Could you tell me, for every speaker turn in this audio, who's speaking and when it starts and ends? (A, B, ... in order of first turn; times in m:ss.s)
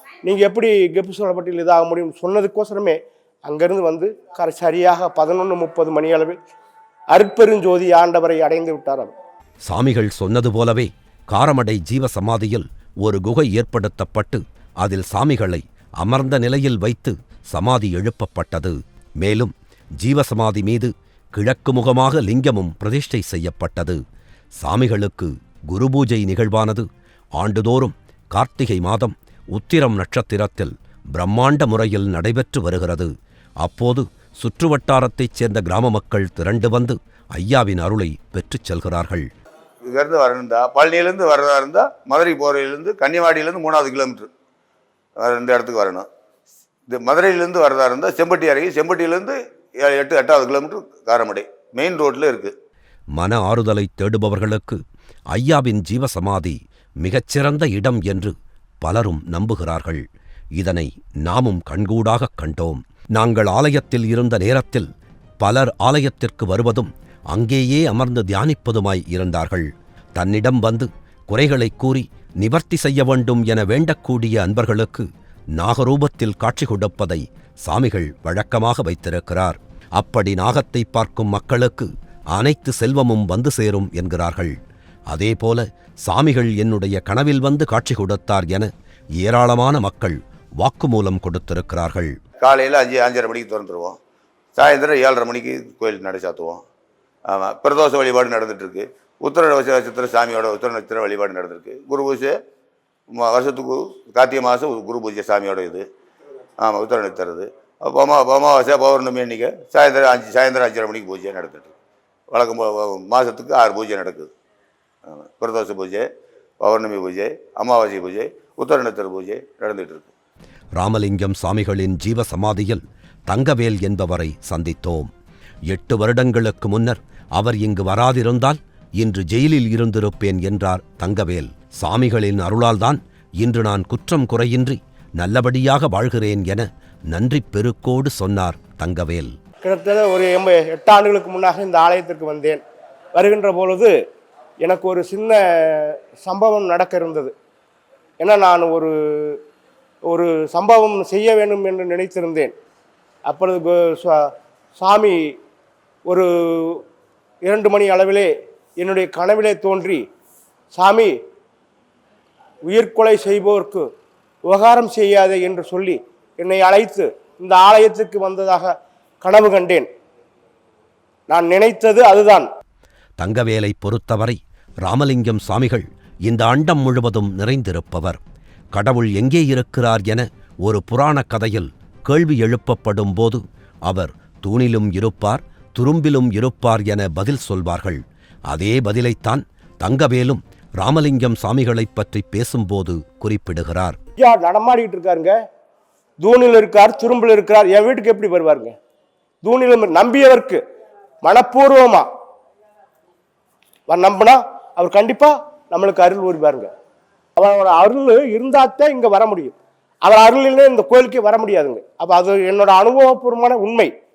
0:00.2-0:06.4 A
0:07.1-0:09.1 A
0:09.7-0:24.0 B
0:24.6-0:26.9 B
0:27.4-0:39.3 B
0:39.9-0:44.3 C
0:45.2-0:46.1 C
0:46.9-0:52.5 C
0:53.1-0:54.8 B
0:55.3-1:00.0 B
1:00.6-1:04.9 B
1:05.4-1:15.1 B
1:15.6-1:24.6 B
1:25.1-1:32.2 B
1:32.4-1:34.0 C
1:34.6-1:36.6 C
1:37.3-1:42.4 C
1:43.1-1:45.9 C
1:46.6-1:51.7 C
1:52.3-1:54.3 C
1:55.1-1:56.1 C
1:56.6-2:00.1 C
2:00.8-2:05.1 B
2:05.7-2:19.3 B
2:19.6-2:22.6 A
2:23.2-2:23.9 A
2:24.6-2:27.3 A
2:28.2-2:29.4 A
2:30.1-2:32.5 A
2:33.3-2:35.2 A
2:36.1-2:36.8 A
2:37.4-2:40.0 A
2:40.7-2:41.1 A
2:42.6-2:43.9 A
2:44.5-2:49.9 A
2:51.3-2:52.5 A
2:53.2-2:58.2 B
2:58.7-3:14.0 B
3:14.2-3:15.3 A
3:16.2-3:18.7 A
3:19.4-3:20.6 A
3:21.2-3:22.1 A
3:23.9-3:26.7 A
3:27.4-3:33.9 A